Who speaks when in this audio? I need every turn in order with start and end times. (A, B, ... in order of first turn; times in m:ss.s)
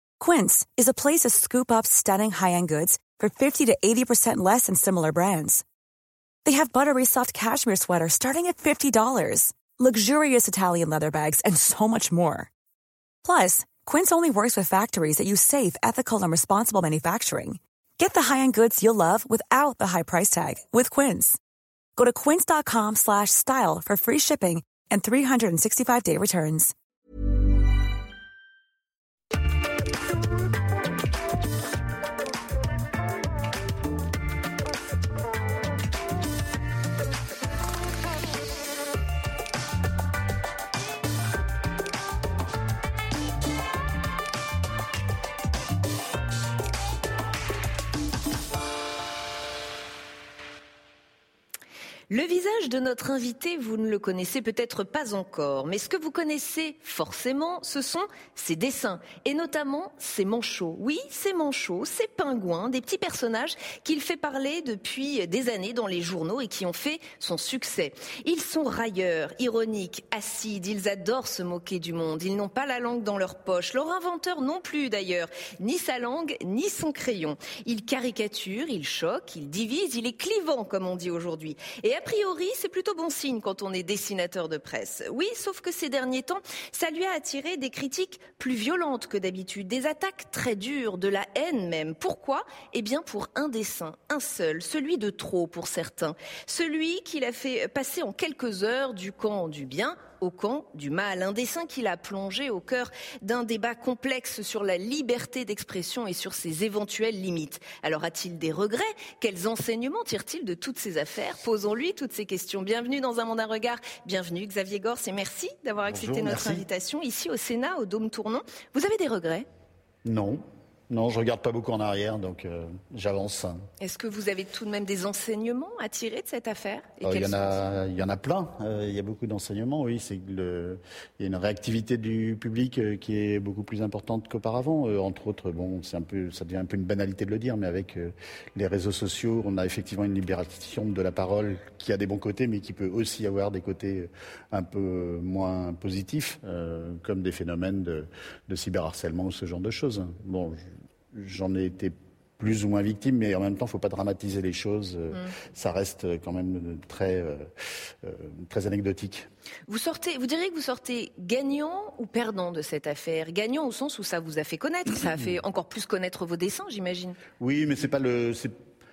0:00.2-0:05.6 A
0:06.4-0:12.5 A
0:13.2-0:21.4 A
0:22.0-0:26.7 A
0:52.1-1:59.4 B
1:55.8-1:56.6 C
2:00.0-2:03.6 C
2:03.8-2:07.6 B
2:07.0-2:37.5 C
2:38.0-2:39.3 C
2:39.7-2:47.2 B
2:47.4-2:48.5 C